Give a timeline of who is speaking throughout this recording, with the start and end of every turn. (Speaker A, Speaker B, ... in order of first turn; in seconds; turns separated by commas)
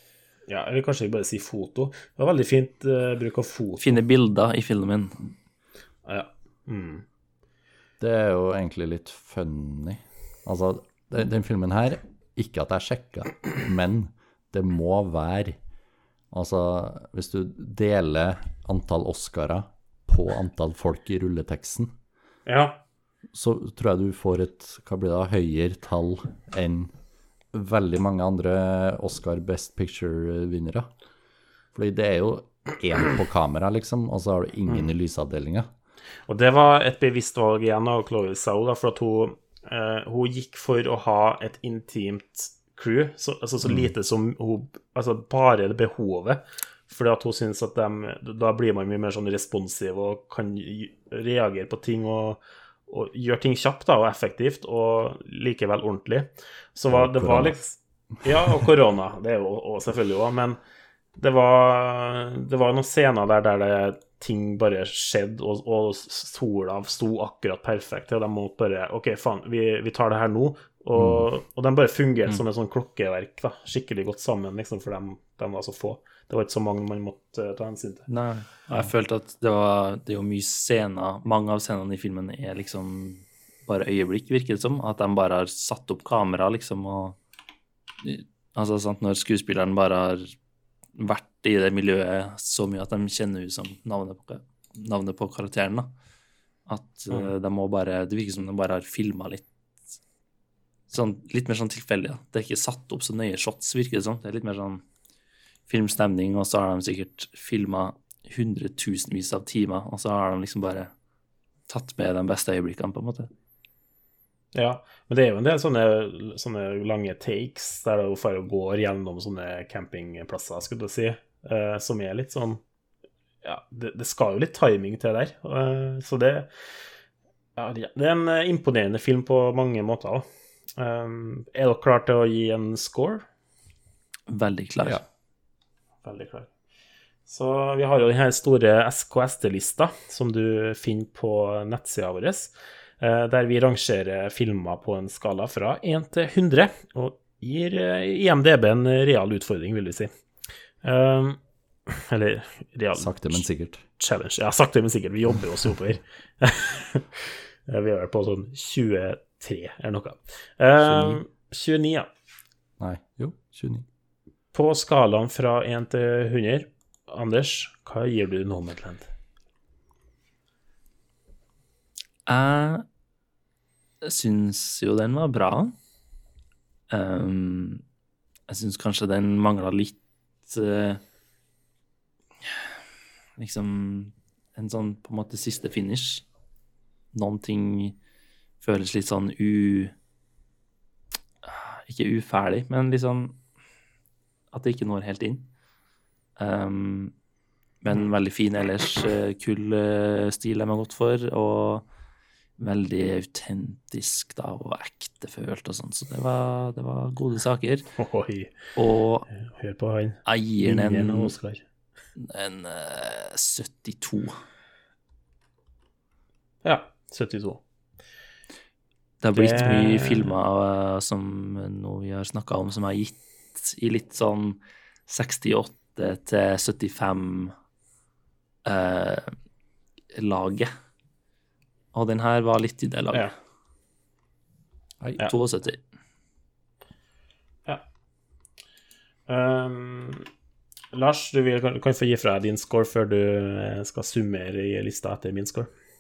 Speaker A: 0.5-3.8, Speaker B: 3.8-5.3, Speaker A: 6.1-7.0, Speaker C: 8.0-15.6, Speaker C: 16.3-21.9, Speaker A: 22.5-22.8, Speaker C: 23.3-26.9, Speaker C: 27.5-30.9, Speaker C: 31.7-35.7, Speaker A: 36.3-60.6, Speaker C: 43.6-43.9, Speaker C: 56.9-57.6, Speaker A: 61.2-78.1, Speaker C: 71.0-71.3, Speaker B: 78.1-87.2, Speaker B: 88.0-90.3, Speaker B: 91.0-95.9, Speaker B: 96.7-99.4, Speaker B: 100.9-104.8, Speaker B: 105.7-110.9, Speaker B: 111.7-113.3, Speaker A: 114.5-122.6, Speaker A: 123.4-126.5, Speaker A: 127.6-130.3, Speaker A: 130.8-133.2, Speaker B: 134.3-135.0, Speaker A: 136.0-136.5, Speaker A: 137.3-150.1, Speaker A: 150.8-153.5, Speaker C: 153.0-153.8, Speaker A: 154.0-162.1, Speaker C: 160.8-161.2, Speaker C: 162.8-163.8, Speaker A: 164.5-169.1, Speaker B: 172.3-172.8, Speaker B: 174.0-175.7, Speaker B: 176.9-177.8, Speaker B: 178.5-181.0, Speaker B: 182.4-182.7, Speaker B: 183.4-186.2, Speaker B: 187.1-188.0, Speaker B: 188.6-189.9, Speaker B: 191.4-193.4, Speaker B: 194.5-195.5, Speaker B: 196.4-197.1, Speaker B: 197.8-201.9, Speaker B: 202.6-207.9, Speaker A: 208.0-208.5, Speaker B: 208.8-209.3, Speaker A: 209.4-211.6, Speaker B: 210.3-211.3, Speaker B: 212.2-214.4, Speaker A: 216.6-217.6, Speaker B: 219.2-227.5, Speaker A: 219.3-220.3, Speaker B: 228.7-229.3, Speaker B: 230.1-230.7, Speaker B: 231.9-233.3, Speaker B: 235.2-235.8, Speaker A: 239.3-240.3, Speaker A: 240.9-245.7